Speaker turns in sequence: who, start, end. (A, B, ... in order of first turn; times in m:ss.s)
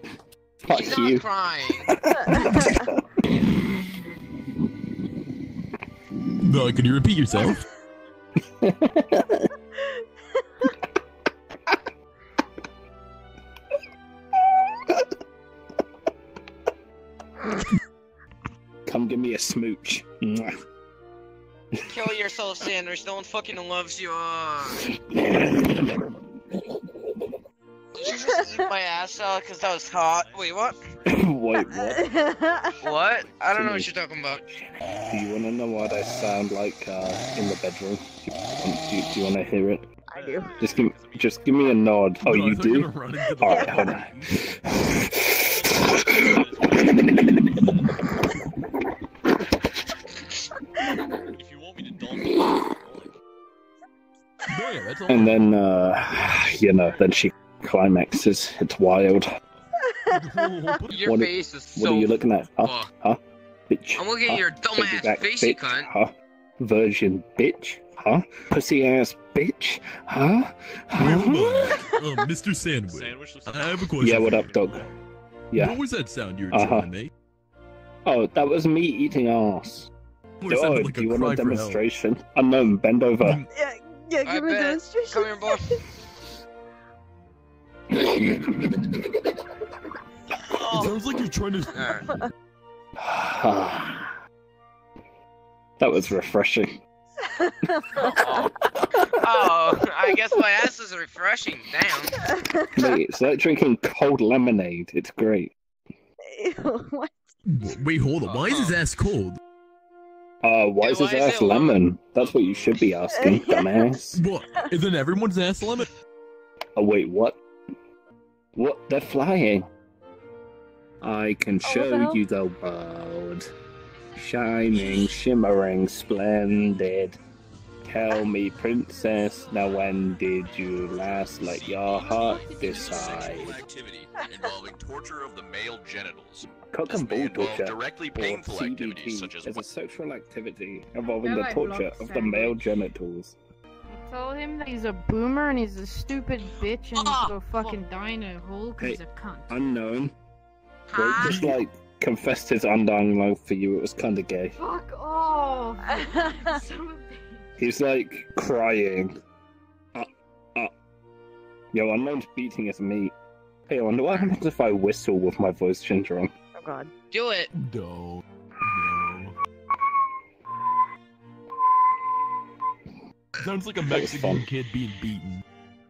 0:00.6-0:01.3 A
0:00.7-0:01.9 B
0:01.9-0:03.5 A
0:02.2-0:02.9 C
0:06.4-0:07.6 D
0:08.6-0:09.4 A
0:18.9-0:20.5 A
0:21.9-0:24.9 B
0:25.4-0:25.9 A
0:28.0-0:30.8 B
0:28.1-0:28.6 C
0:28.3-0:34.7 E
0:31.1-0:32.0 A
0:31.6-0:33.1 C
0:32.8-0:34.4 B
0:33.5-0:33.9 A
0:35.1-0:39.8 A
0:40.1-0:40.7 C
0:40.1-0:41.8 E
0:40.6-0:44.1 A
0:42.2-0:44.7 D
0:43.4-0:43.9 C
0:45.3-0:47.2 E
0:51.4-0:53.2 E
0:54.5-0:55.4 D
0:55.1-0:59.3 A
0:56.3-0:57.1 E
0:59.8-1:00.8 C
1:00.1-1:01.0 D
1:00.9-1:02.9 B
1:01.0-1:11.8 A
1:04.0-1:05.9 B
1:11.0-1:14.4 D
1:12.9-1:14.9 E
1:14.0-1:14.8 A
1:15.5-1:15.8 A
1:15.6-1:17.1 D
1:16.5-1:16.9 A
1:18.1-1:19.9 A
1:20.4-1:21.9 D
1:20.5-1:23.4 A
1:23.2-1:23.5 D
1:23.5-1:25.8 C
1:24.2-1:25.8 B
1:28.1-1:28.7 A
1:30.5-1:31.0 B
1:30.7-1:32.1 D
1:31.7-1:32.1 B
1:33.0-1:34.2 A
1:35.8-1:36.7 A
1:37.2-1:38.5 C
1:38.0-1:42.2 B
1:42.3-1:42.9 C
1:42.8-1:45.5 A
1:46.3-1:47.3 C
1:47.5-1:49.4 D
1:48.2-1:48.8 B
1:50.4-1:54.2 A
1:50.8-1:51.8 B
1:52.3-1:52.8 E
1:53.1-1:53.9 C
1:54.1-1:55.9 D
1:56.8-1:57.4 A
1:58.6-1:59.6 A
2:01.0-2:03.5 A
2:01.6-2:02.2 C
2:04.2-2:07.2 A
2:07.8-2:13.5 A
2:09.6-2:10.6 F
2:11.3-2:19.7 G
2:12.0-2:13.6 F
2:16.7-2:23.4 A
2:21.2-2:22.6 F
2:23.9-2:29.6 F
2:26.9-2:27.8 B
2:28.8-2:30.1 A
2:30.9-2:31.6 B
2:31.0-2:34.5 A
2:31.2-2:31.6 D
2:34.6-2:37.5 F
2:36.0-2:36.6 C
2:37.6-2:39.1 A
2:40.0-2:40.7 A
2:41.7-2:43.1 A
2:43.7-2:46.3 A
2:46.6-2:46.9 C
2:47.1-2:47.5 B
2:47.6-2:49.4 D
2:53.4-2:55.4 D
2:53.8-2:54.5 A